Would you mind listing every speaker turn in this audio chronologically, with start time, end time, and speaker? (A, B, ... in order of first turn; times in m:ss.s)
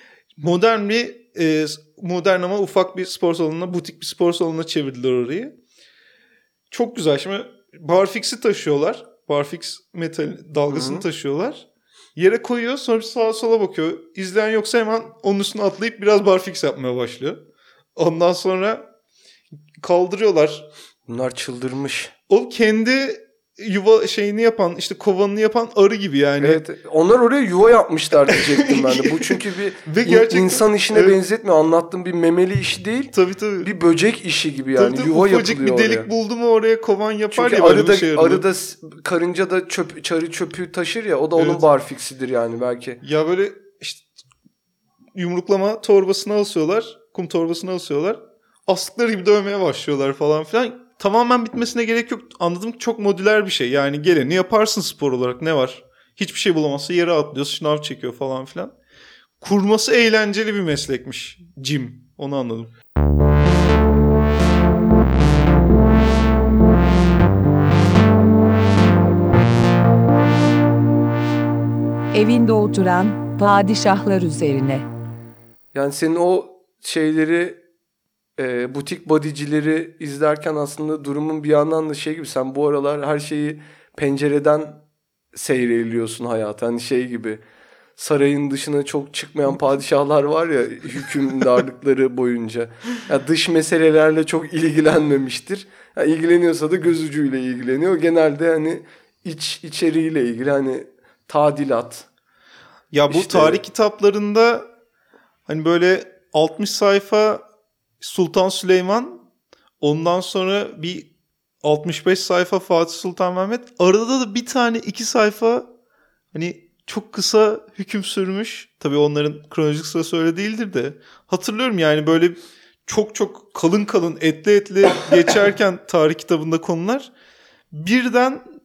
0:00.4-0:05.6 A
0:06.7-0:17.4 A
0:10.7-0:11.0 B
0:18.0-0:18.8 A
0:19.8-0:20.7 A
0:21.1-0:22.1 B
0:22.3-0:26.6 A
0:26.4-0:36.1 B
0:28.3-0:31.2 A
0:33.1-0:33.7 A
0:34.8-0:38.4 A
0:37.3-0:43.0 B
0:41.4-0:41.6 A
0:43.0-0:44.0 A
0:45.2-0:58.7 A
0:59.4-1:02.7 A
1:12.1-1:14.9 C
1:15.7-1:17.6 B
1:18.4-1:24.8 B
1:25.3-1:27.4 B
1:28.0-1:42.1 B
1:42.9-1:44.6 A
1:43.1-1:43.6 B
1:45.5-1:47.4 A
1:48.0-1:49.2 A
1:49.8-1:51.1 A
1:51.6-1:55.7 A
1:56.3-2:07.1 A
2:07.7-2:08.4 A